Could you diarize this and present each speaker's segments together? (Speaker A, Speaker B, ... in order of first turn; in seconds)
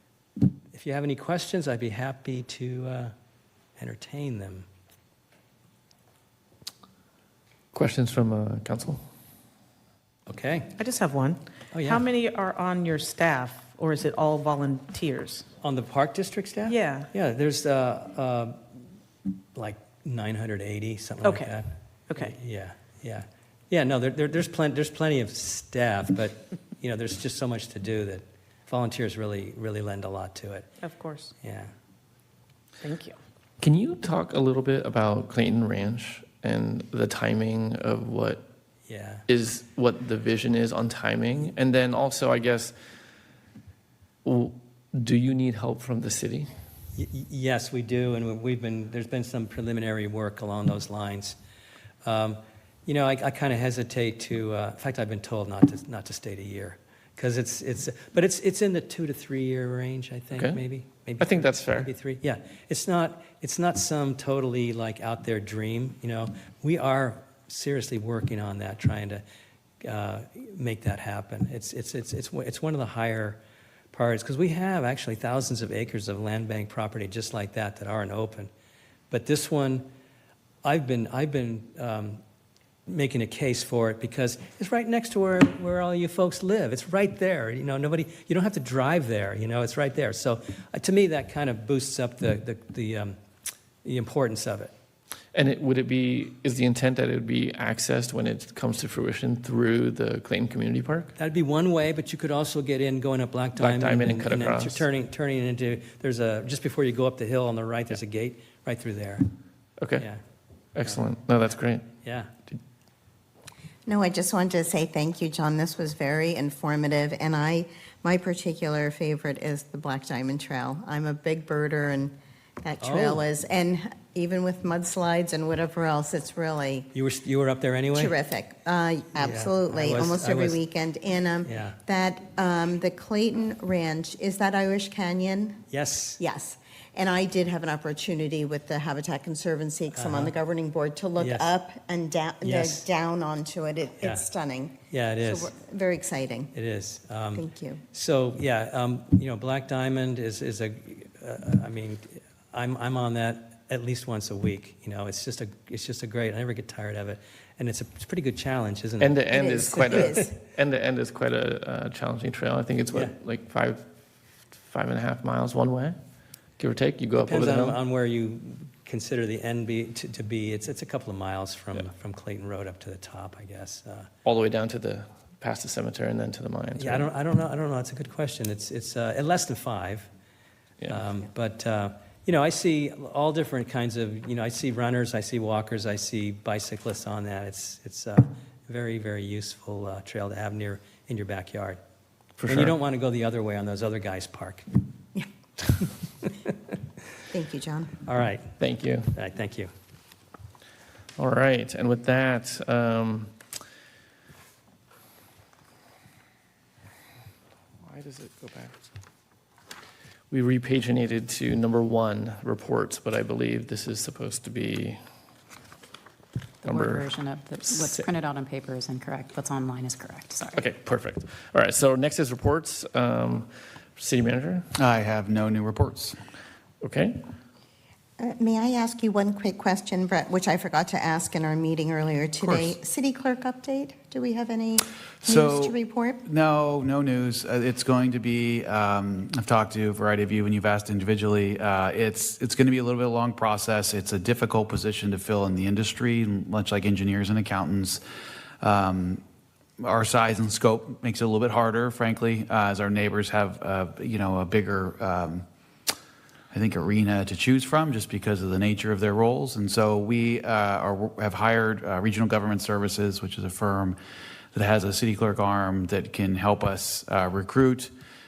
Speaker A: 0.7-3.1, 3.8-4.7, 10.3-10.7, 11.7-12.0, 15.6-18.6, 19.5-21.7, 22.2-30.7, 31.4-31.7, 38.9-39.2, 46.9-51.4, 52.0-69.2, 69.8-73.4, 73.9-78.5, 79.1-79.9, 80.6-82.2, 82.9-93.2, 93.8-94.7, 101.2-109.3, 112.0-112.3, 122.8-123.2, 126.9-128.2, 129.2-130.6, 131.4-131.8, 135.7-136.2, 139.9-140.3, 141.2-141.5, 142.4-142.8, 144.9-145.5, 146.5-159.2, 167.2-174.1, 176.8-180.1, 180.9-191.8, 192.4-194.7, 196.2-196.5, 198.1-198.5, 199.1-199.7
Speaker B: 7.7-9.0, 33.6-38.4, 39.3-42.7, 44.2-46.5, 60.3-60.6, 61.2-61.9, 95.3-101.1, 103.6-104.8, 109.8-110.0, 110.7-111.9, 159.0-163.8, 164.7-165.9, 166.6-167.8, 174.2-177.1, 192.4-192.7, 198.6-199.1, 201.2-203.3, 207.8-208.7, 210.3-215.0, 216.6-218.1, 220.5-224.6, 226.8-227.2
Speaker C: 10.8-15.4, 16.6-17.1, 21.2-21.6, 22.1-22.3, 30.8-31.3, 32.8-33.2
Speaker D: 113.8-126.9, 127.9-135.6, 136.2-144.7, 145.2-146.5, 147.3-147.8, 159.4-160.1, 197.3-197.9, 228.2-236.2
Speaker E: 216.6-220.6
Speaker F: 224.8-226.2, 235.2-248.0, 248.6-249.2, 249.8-255.4, 256.5-264.0, 264.5-267.9